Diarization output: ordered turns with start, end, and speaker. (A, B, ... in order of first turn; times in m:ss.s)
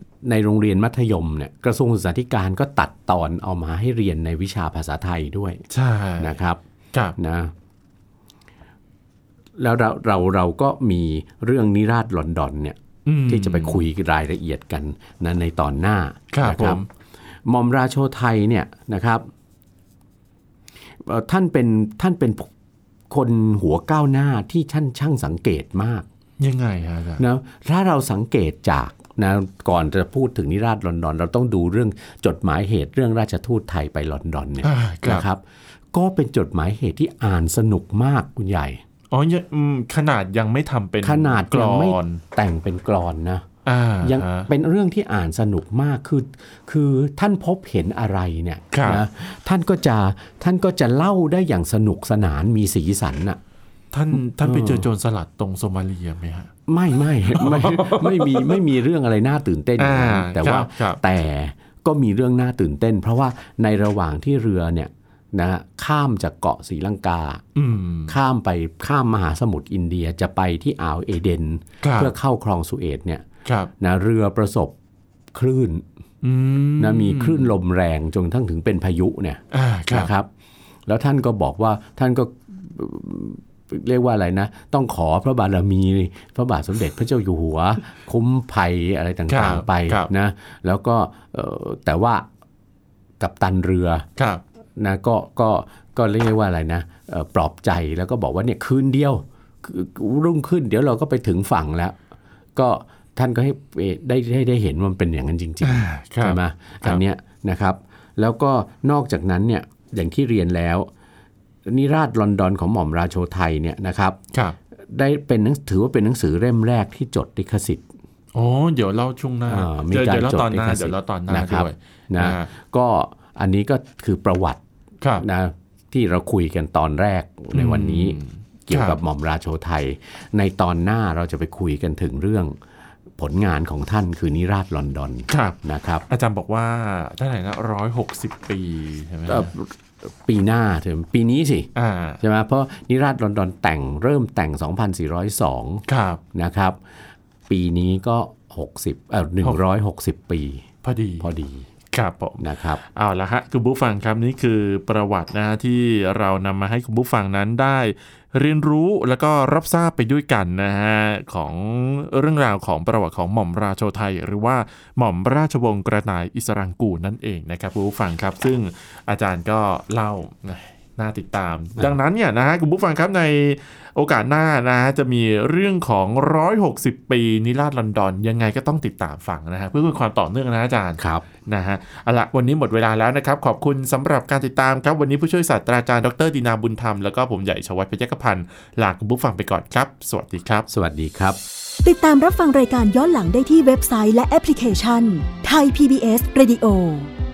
0:00.2-0:05.6 A
0:05.7-0:06.4 B
0:06.2-0:06.6 A
0:07.2-0:07.5 A
0:09.6-0:16.8 A
0:13.0-0:13.8 B
0:16.3-0:16.9 B
0:17.5-0:19.3 A
0:21.0-0:22.5 A
0:23.1-0:26.0 A
0:26.4-0:27.2 B
0:27.2-0:35.4 A
0:34.6-0:35.3 B
0:35.9-0:38.8 A
0:39.1-0:42.2 B
0:41.0-0:43.5 A
0:43.6-0:44.5 B
0:44.0-0:53.4 A
0:48.7-0:49.0 B
0:53.9-0:56.5 B
0:54.2-0:54.9 A
0:56.7-1:07.4 A
0:57.2-0:58.6 B
0:59.8-1:01.0 B
1:07.6-1:08.2 B
1:08.1-1:13.2 A
1:11.8-1:12.1 B
1:13.4-1:13.7 B
1:13.8-1:14.8 A
1:15.3-1:15.8 A
1:16.2-1:17.5 B
1:16.8-1:20.3 A
1:19.5-1:20.1 B
1:20.9-1:32.3 A
1:29.3-1:30.1 B
1:33.2-1:34.1 A
1:34.2-1:34.4 B
1:34.8-1:42.0 A
1:42.6-1:50.9 A
1:45.6-1:47.0 B
1:51.7-1:54.2 A
1:54.9-1:57.8 A
1:58.3-2:02.5 B
1:59.5-2:04.6 A
2:05.2-2:12.6 A
2:07.5-2:09.0 B
2:13.2-2:16.0 A
2:15.3-2:19.5 B
2:19.3-2:21.7 A
2:21.8-2:22.2 B
2:22.2-2:26.8 A
2:25.9-2:26.2 B
2:27.5-2:30.7 A
2:30.8-2:31.3 B
2:31.2-2:31.7 A
2:31.9-3:10.7 B
2:32.4-2:32.8 A
3:01.0-3:01.3 A
3:10.7-3:11.4 A
3:11.8-3:17.1 C